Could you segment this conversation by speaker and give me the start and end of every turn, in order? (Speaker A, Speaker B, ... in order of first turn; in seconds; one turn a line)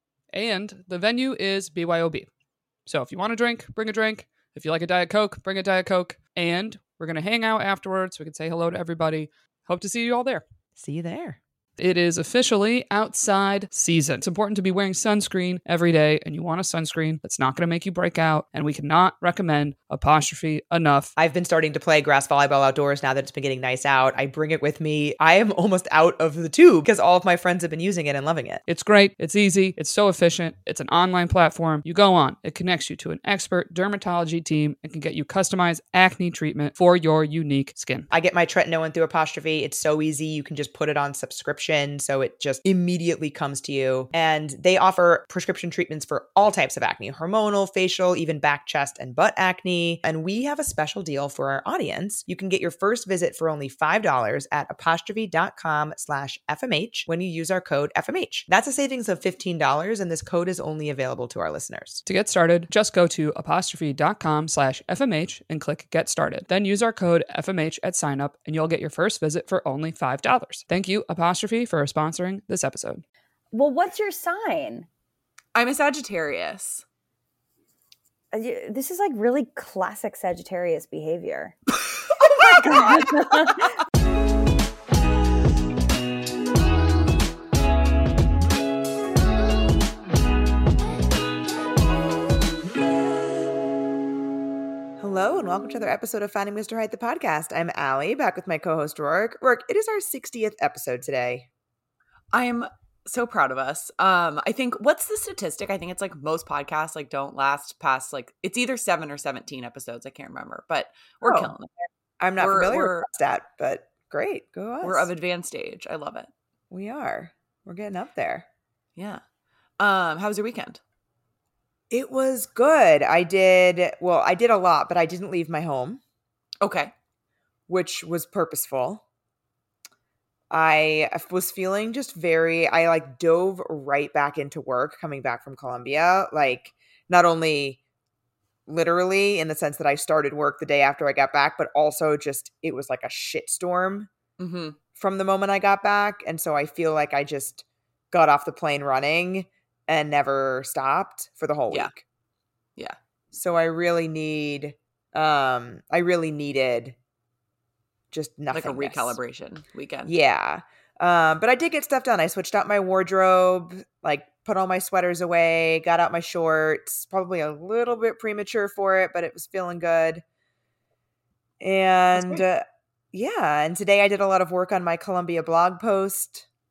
Speaker A: 0.3-2.3
Speaker A: 2.9-10.4
Speaker B: 10.8-11.4
Speaker A: 11.8-21.1
Speaker B: 21.2-28.6
Speaker A: 28.7-38.1
Speaker B: 38.1-62.0
Speaker A: 62.0-73.0
Speaker C: 73.5-74.9
Speaker D: 75.5-76.8
Speaker C: 78.3-81.5
Speaker C: 82.2-83.7
Speaker B: 95.0-101.5
Speaker D: 102.3-111.9
Speaker B: 111.2-111.5
Speaker B: 112.2-115.1
Speaker D: 112.4-113.1
Speaker D: 114.8-116.3
Speaker B: 116.7-118.5
Speaker D: 119.0-119.2
Speaker D: 119.8-120.8
Speaker B: 121.9-126.0
Speaker D: 126.6-126.9
Speaker B: 127.7-129.0
Speaker B: 130.5-137.8
Speaker B: 138.7-144.1
Speaker D: 144.4-144.8
Speaker B: 144.9-152.0
Speaker B: 153.3-156.9
Speaker B: 158.1-159.2
Speaker D: 158.5-160.1
Speaker B: 160.1-170.2
Speaker B: 171.6-176.4
Speaker D: 172.1-172.4